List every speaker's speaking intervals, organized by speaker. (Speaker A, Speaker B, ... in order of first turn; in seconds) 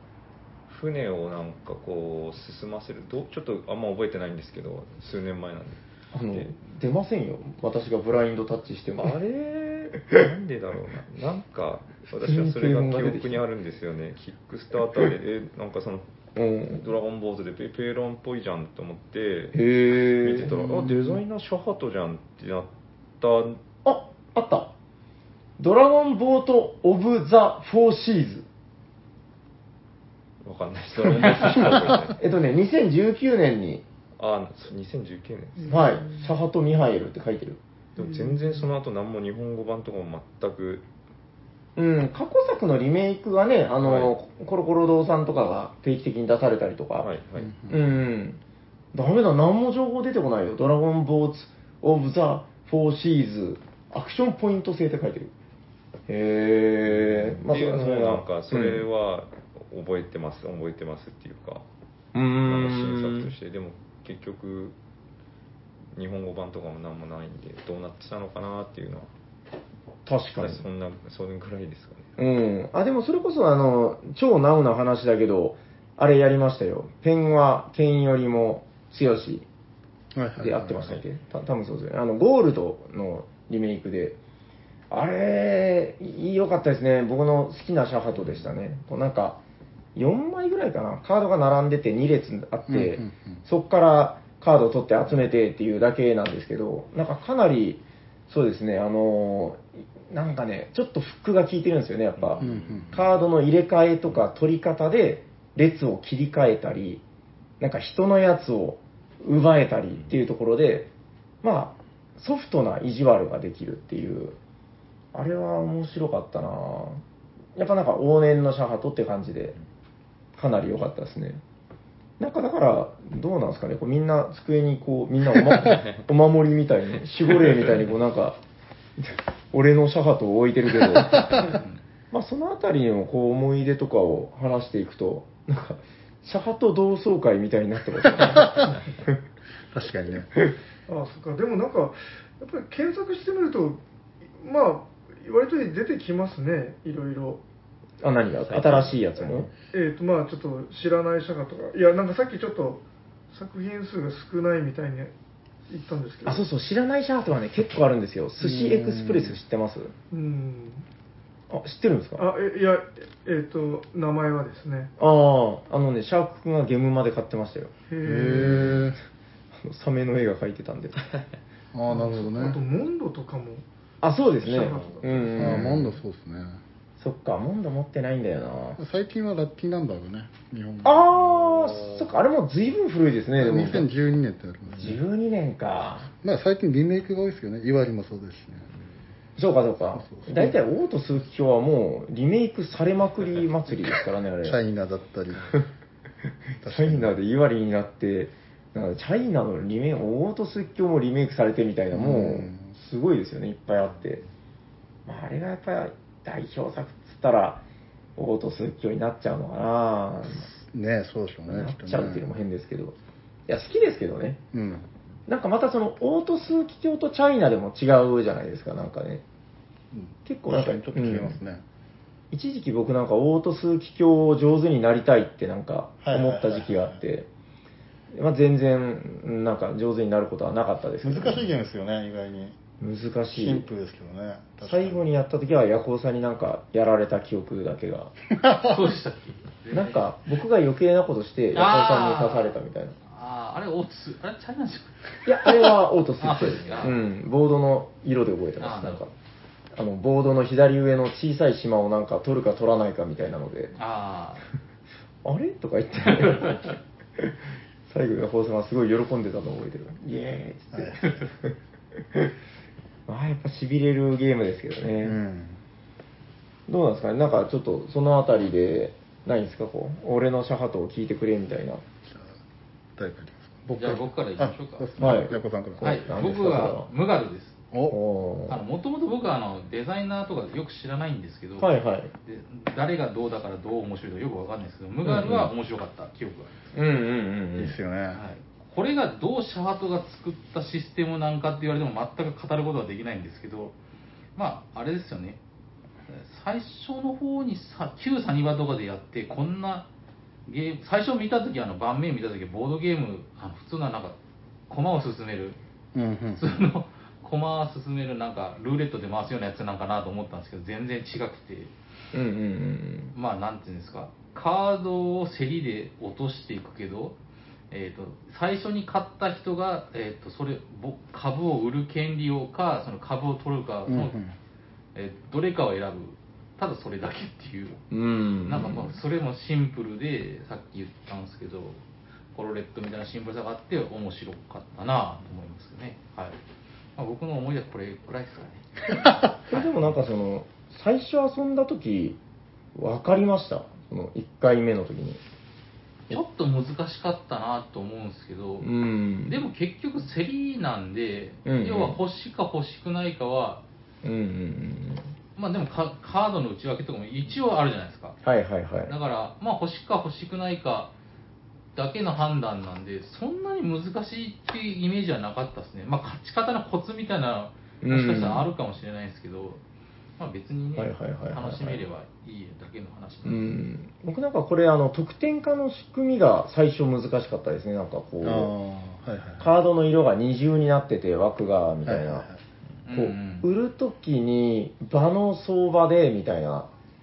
Speaker A: 0.7-6.5, 9.3-16.1, 16.7-23.6, 30.4-32.2, 34.2-35.9, 38.0-40.9, 43.8-44.1, 47.0-47.5, 56.9-61.6, 62.5-64.8, 66.0-69.1, 70.4-72.1, 102.2-103.0, 125.6-126.0, 148.5-148.9
Speaker B: 6.1-9.4, 10.0-10.3, 12.2-13.4, 16.4-16.9, 19.5-20.9, 23.8-24.7, 25.6-28.5, 32.2-33.8, 35.7-37.6, 41.8-47.1, 47.7-48.4, 48.9-55.3, 56.1-58.9, 62.1-63.3, 70.1-70.7, 72.2-79.5, 80.4-84.2, 84.9-89.4, 90.0-107.0, 107.6-110.9, 111.4-114.4, 115.1-117.0, 117.6-119.5, 120.4-121.4, 122.2-128.4, 129.0-131.6, 132.1-139.2, 148.0-149.5, 156.2-159.9, 161.5-162.3, 165.0-167.7, 168.5-168.8, 169.5-171.2, 174.0-176.0, 177.0-178.8, 180.8-183.9, 184.8-186.1, 189.4-194.6, 196.6-204.2, 205.1-207.6, 208.2-210.5, 211.5-213.0, 213.5-214.4, 215.3-219.2, 220.2-221.4, 222.3-227.3, 228.1-231.5, 232.8-233.7, 234.6-238.1, 239.7-243.0, 245.2-249.1, 249.7-253.7, 255.2-262.3, 263.1-265.2, 266.7-271.8, 275.0-276.9, 277.9-278.6, 281.6-282.1, 285.1-285.5, 286.7-287.8, 312.1-313.1, 327.9-328.9, 339.5-342.2, 342.8-345.2, 348.6-349.4, 351.4-352.0, 354.0-355.1, 358.2-358.9, 367.8-368.5, 370.8-371.8, 373.2-378.5, 379.4-382.3, 382.9-386.7
Speaker C: 20.5-21.1, 47.4-47.8, 80.2-81.0, 92.7-93.4, 102.4-103.0, 138.2-138.7, 139.7-140.3, 158.4-159.4, 168.0-169.0, 171.7-172.6, 175.4-176.6, 178.8-182.0, 183.4-185.0, 186.2-188.7, 189.9-190.6, 194.4-195.6, 196.6-197.1, 201.9-202.7, 210.5-212.2, 214.5-214.9, 219.9-221.6, 226.0-227.0, 231.0-232.6, 233.3-235.1, 238.5-238.8, 260.7-261.2, 265.0-265.6, 272.1-272.4, 273.0-276.2, 277.7-278.0, 287.6-288.2, 305.9-306.4, 323.9-324.4, 378.2-379.5, 381.9-382.4
Speaker D: 35.6-36.3, 38.0-38.6, 140.9-143.8, 144.4-147.4, 149.7-155.1, 155.7-156.4, 160.1-160.8, 162.2-164.9, 167.9-168.7, 171.9-173.6, 174.4-175.6
Speaker E: 238.6-240.0, 241.5-242.5, 243.1-245.6, 246.2-247.0, 248.6-249.0, 253.8-254.4, 273.8-274.9, 275.8-277.6, 278.5-281.7, 282.2-286.7, 288.1-293.8, 294.4-295.4, 296.1-299.9, 300.5-304.2, 304.7-305.6, 306.4-311.7, 313.1-317.2, 317.7-324.2, 324.9-327.8, 328.4-331.8, 332.3-336.4, 337.0-339.6, 346.1-348.7, 349.2-353.6, 355.4-358.2, 358.9-360.9, 361.8-369.6, 370.2-373.6, 382.9-383.5